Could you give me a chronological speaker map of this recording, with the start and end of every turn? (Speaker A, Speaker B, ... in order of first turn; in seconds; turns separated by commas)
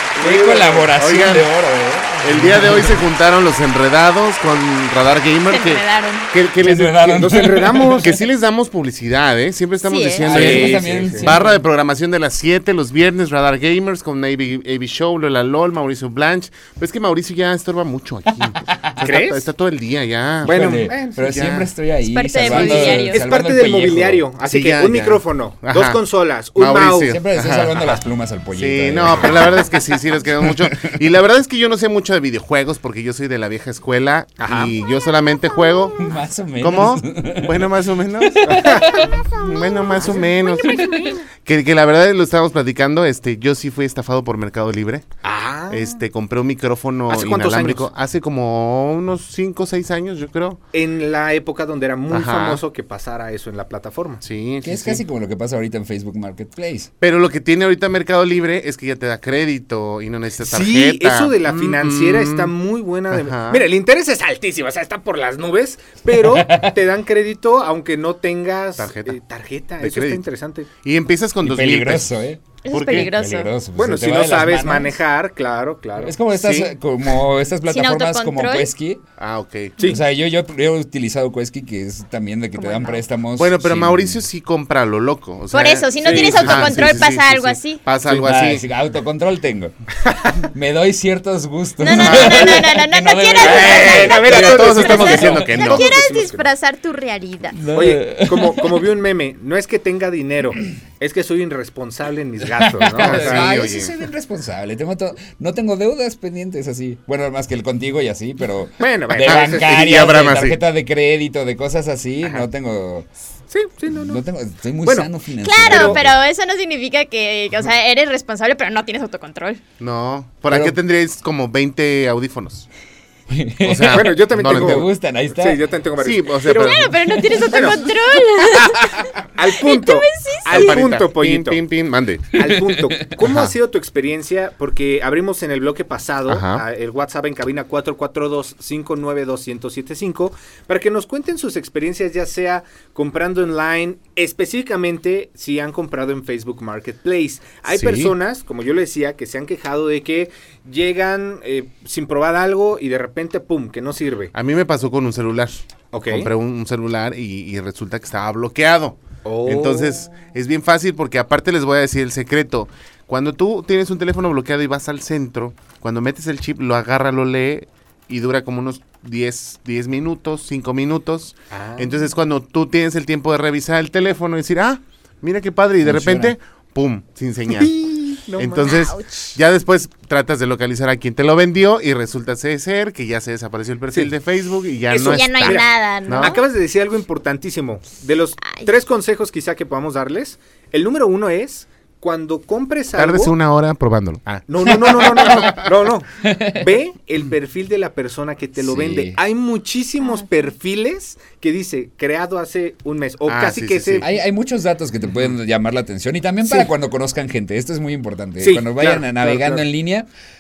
Speaker A: 0.2-0.9, Speaker B: 0.2-3.0, Speaker C: 1.0-1.5, Speaker C: 2.2-21.7, Speaker D: 5.5-6.3, Speaker B: 6.6-8.1, Speaker A: 7.1-8.1, Speaker D: 9.8-10.7, Speaker B: 10.2-11.6, Speaker A: 10.3-11.3, Speaker B: 18.4-18.9, Speaker A: 19.0-19.4, Speaker A: 20.4-21.4, Speaker B: 20.4-24.2, Speaker D: 22.0-23.2, Speaker A: 22.5-27.2, Speaker C: 24.4-27.9, Speaker B: 27.0-29.6, Speaker C: 28.5-38.6, Speaker B: 30.4-31.0, Speaker A: 34.4-34.7, Speaker B: 36.0-39.2, Speaker A: 38.4-39.3, Speaker C: 39.3-45.0, Speaker A: 40.0-41.2, Speaker B: 40.6-41.1, Speaker A: 45.2-46.0, Speaker C: 45.7-50.6, Speaker A: 47.1-47.9, Speaker A: 50.7-54.2, Speaker C: 52.1-52.6, Speaker C: 54.2-55.0, Speaker B: 54.6-56.9, Speaker C: 57.0-62.5, Speaker A: 60.4-70.7, Speaker C: 63.1-63.6, Speaker B: 66.1-66.8, Speaker C: 68.8-69.2, Speaker C: 69.8-70.2, Speaker C: 70.8-72.1, Speaker B: 71.4-75.0, Speaker D: 72.6-73.5, Speaker C: 72.7-73.1, Speaker A: 73.8-76.2, Speaker B: 76.0-79.0, Speaker C: 76.3-76.7, Speaker D: 77.7-78.7, Speaker C: 79.2-79.8, Speaker B: 79.9-84.2, Speaker D: 82.6-83.0, Speaker C: 83.3-88.6, Speaker D: 85.5-87.8, Speaker B: 86.1-87.0, Speaker B: 88.1-89.7, Speaker A: 90.0-90.4, Speaker B: 90.4-94.5, Speaker D: 91.8-97.6, Speaker C: 92.0-92.4, Speaker A: 92.2-92.5, Speaker A: 93.4-96.5, Speaker C: 93.8-96.2, Speaker B: 97.5-98.8, Speaker A: 97.7-103.5, Speaker B: 102.6-113.1, Speaker C: 103.0-103.9, Speaker A: 108.8-109.8, Speaker C: 109.2-110.6, Speaker A: 113.5-114.2, Speaker B: 113.9-116.2, Speaker A: 114.8-115.1, Speaker D: 115.4-119.6, Speaker A: 115.6-116.0, Speaker C: 119.8-122.7, Speaker B: 120.5-120.8, Speaker B: 123.3-125.6, Speaker C: 123.6-124.9, Speaker A: 123.9-126.8, Speaker C: 126.0-126.9, Speaker D: 126.5-130.8, Speaker B: 127.3-127.9, Speaker A: 127.5-127.8, Speaker A: 128.4-131.6, Speaker C: 130.5-132.3, Speaker A: 132.3-154.3, Speaker B: 132.4-132.9, Speaker C: 133.2-133.5, Speaker C: 136.3-136.6, Speaker C: 147.7-148.1, Speaker C: 154.3-177.7, Speaker A: 155.9-156.3, Speaker A: 159.2-160.1, Speaker A: 171.5-172.1, Speaker B: 175.8-176.3, Speaker A: 177.5-178.7, Speaker C: 178.4-186.3, Speaker D: 178.6-179.3, Speaker A: 184.9-193.3, Speaker D: 185.0-186.4, Speaker C: 192.9-195.6, Speaker A: 194.2-204.1, Speaker B: 194.8-195.5, Speaker B: 196.2-196.7, Speaker B: 198.6-199.2, Speaker D: 200.0-200.5, Speaker C: 203.2-204.1, Speaker B: 204.0-210.1, Speaker A: 206.4-206.7, Speaker A: 208.4-209.7